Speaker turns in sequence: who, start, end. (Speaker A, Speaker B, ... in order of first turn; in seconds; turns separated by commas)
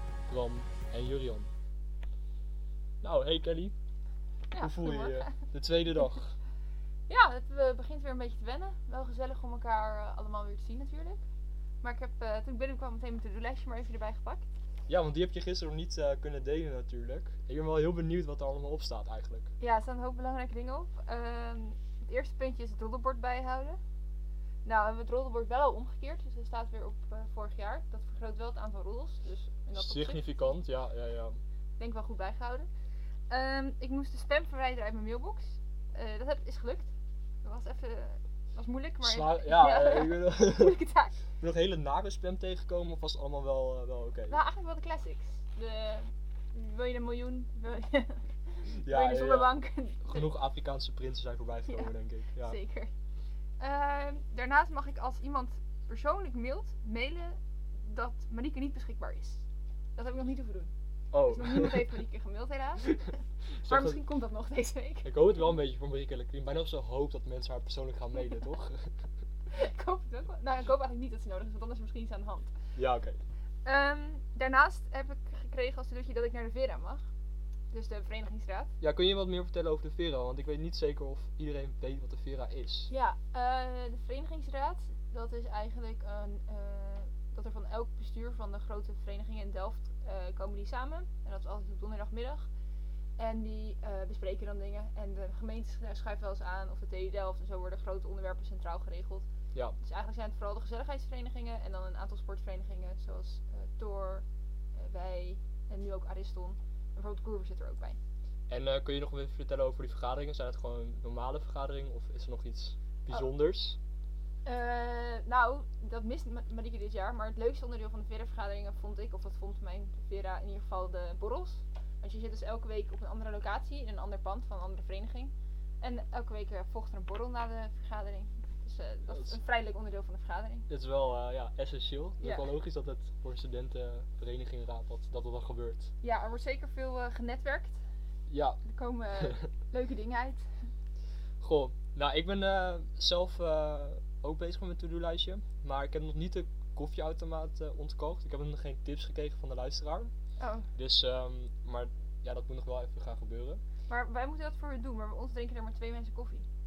Speaker A: 0.3-1.5, Speaker A: 3.0-3.7, Speaker B: 4.5-5.3, Speaker A: 4.6-6.3, Speaker B: 7.1-11.2, Speaker B: 11.8-14.4, Speaker A: 14.9-19.5, Speaker B: 19.6-23.8, Speaker B: 24.6-30.5, Speaker A: 29.7-31.4, Speaker B: 31.8-32.7, Speaker B: 33.3-36.9, Speaker B: 37.4-41.1, Speaker A: 39.0-40.8, Speaker A: 41.4-44.4, Speaker B: 44.3-50.3, Speaker A: 48.7-52.6, Speaker B: 51.7-52.9, Speaker B: 53.6-59.4, Speaker B: 60.0-60.7, Speaker A: 61.1-61.8, Speaker B: 61.2-65.1, Speaker A: 63.5-64.0, Speaker A: 65.0-68.9, Speaker B: 69.5-72.5, Speaker A: 72.8-73.2, Speaker B: 73.6-77.0, Speaker B: 77.7-78.7, Speaker A: 78.8-82.9, Speaker B: 82.9-92.5, Speaker B: 93.2-99.2, Speaker B: 99.8-104.2, Speaker B: 104.8-108.0, Speaker A: 108.5-113.8, Speaker B: 114.4-130.7, Speaker A: 129.1-129.4, Speaker A: 130.7-135.9, Speaker B: 132.2-132.5, Speaker B: 136.0-137.8, Speaker A: 138.3-138.6, Speaker B: 138.7-140.4, Speaker A: 141.4-150.1, Speaker B: 150.4-150.7, Speaker A: 150.7-153.6, Speaker B: 153.9-156.5